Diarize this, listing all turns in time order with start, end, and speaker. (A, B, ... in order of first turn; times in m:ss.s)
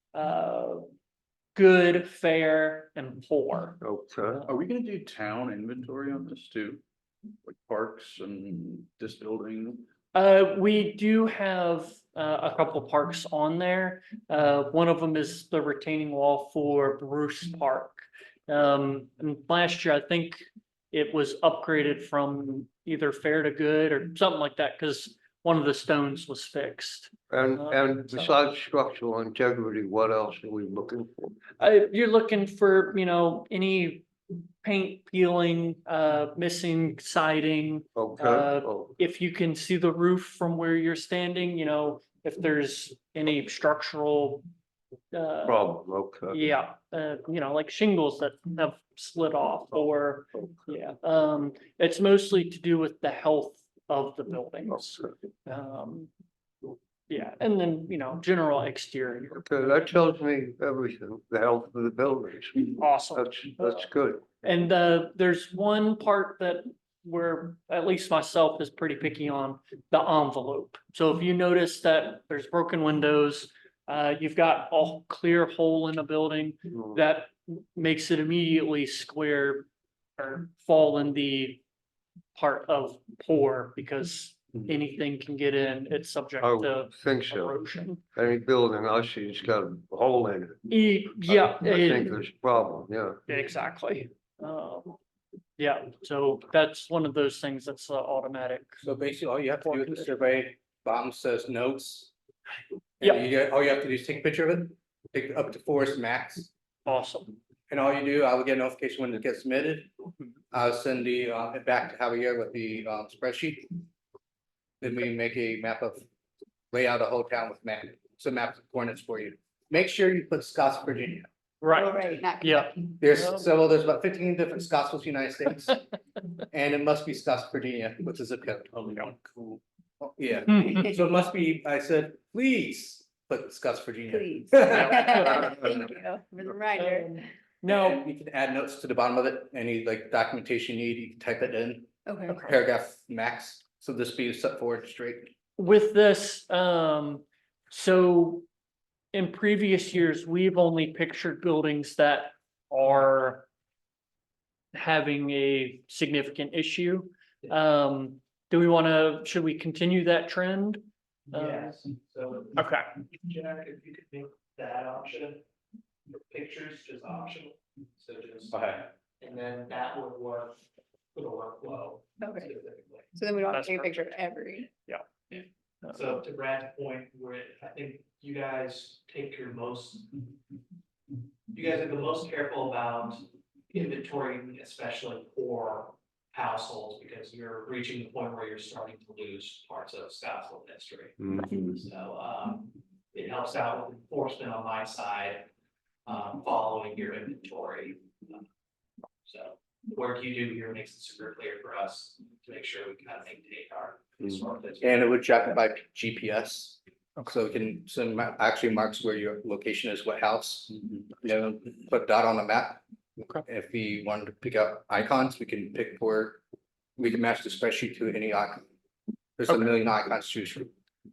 0:00.1-0:00.9 A
0:01.6-0:03.8 A
0:03.8-0:04.4 B
0:04.5-0:06.8 C
0:07.4-0:09.9 C
0:10.1-0:28.4 A
0:27.3-0:31.4 B
0:31.6-0:34.1 A
0:34.6-0:44.4 A
0:38.0-0:38.9 B
0:45.1-0:45.7 A
0:45.4-0:46.4 B
0:46.3-0:56.1 A
0:57.1-0:59.5 A
0:59.5-1:04.2 B
1:02.8-1:03.9 A
1:04.4-1:19.7 A
1:20.2-1:21.6 A
1:22.4-1:28.0 A
1:26.4-1:27.6 B
1:28.1-1:30.6 B
1:30.7-1:32.1 A
1:31.3-1:33.2 B
1:33.3-1:35.0 A
1:35.6-1:38.8 A
1:38.8-1:42.1 D
1:39.6-1:40.1 A
1:43.0-1:46.5 D
1:46.9-1:47.4 A
1:47.7-1:49.9 D
1:50.5-1:53.6 D
1:54.8-1:56.0 D
1:56.7-2:01.3 D
2:01.6-2:03.5 A
2:01.7-2:02.7 E
2:03.0-2:05.9 D
2:06.5-2:08.7 D
2:08.7-2:09.6 C
2:10.0-2:15.5 D
2:10.6-2:10.9 A
2:14.1-2:17.2 E
2:14.7-2:15.5 A
2:16.8-2:18.0 A
2:17.7-2:25.3 D
2:22.1-2:22.4 E
2:25.6-2:28.5 A
2:29.1-2:33.5 A
2:34.7-2:41.7 A
2:41.3-2:45.4 F
2:42.6-2:42.9 A
2:46.1-2:50.6 F
2:48.5-2:48.8 C
2:51.1-2:53.1 F
2:52.2-2:52.5 E
2:53.2-2:54.7 E
2:53.5-2:54.2 A
2:54.9-2:56.0 A
2:55.9-3:00.1 F
3:01.5-3:15.5 F
3:16.1-3:18.4 F
3:19.2-3:25.1 F
3:24.8-3:32.8 D
3:33.4-3:36.4 D
3:37.0-3:38.7 D
3:39.4-3:40.7 D